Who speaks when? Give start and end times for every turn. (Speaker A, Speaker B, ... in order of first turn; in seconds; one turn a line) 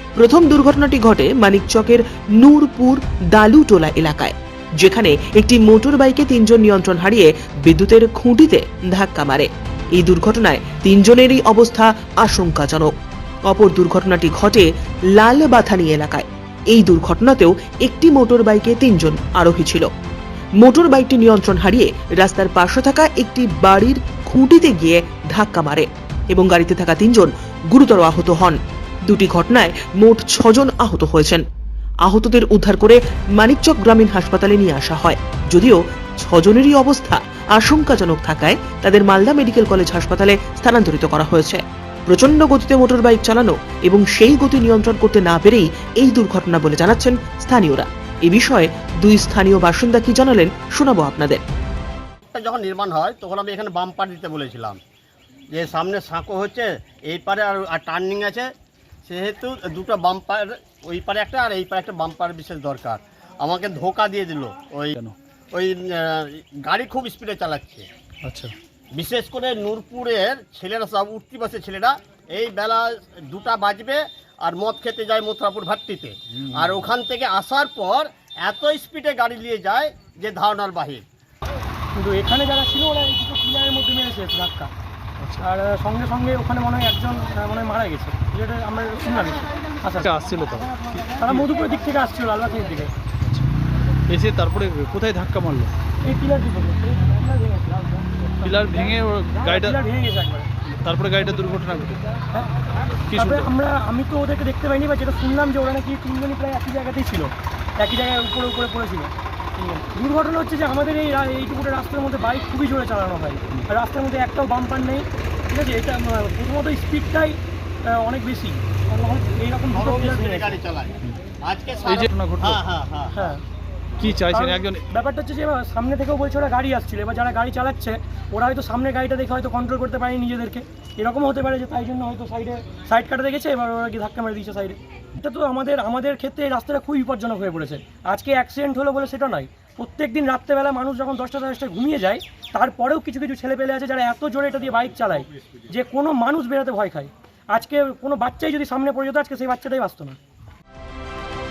Speaker A: 0.2-12.9
Speaker A: 13.5-19.9
Speaker A: 20.6-31.4
Speaker A: 32.0-51.4
Speaker B: 52.3-54.8
Speaker B: 55.5-58.5
Speaker B: 59.1-65.0
Speaker B: 65.5-67.9
Speaker C: 68.2-68.5
Speaker B: 68.9-81.0
Speaker D: 81.9-84.7
Speaker C: 85.2-85.4
Speaker D: 85.4-92.9
Speaker C: 90.0-91.5
Speaker C: 93.2-93.5
Speaker C: 94.1-95.7
Speaker D: 96.0-98.0
Speaker C: 98.4-99.8
Speaker D: 99.4-100.5
Speaker C: 100.7-102.0
Speaker C: 103.1-103.5
Speaker D: 103.1-120.5
Speaker B: 119.7-123.3
Speaker C: 121.9-122.6
Speaker D: 123.2-123.4
Speaker C: 124.0-124.8
Speaker D: 124.3-150.2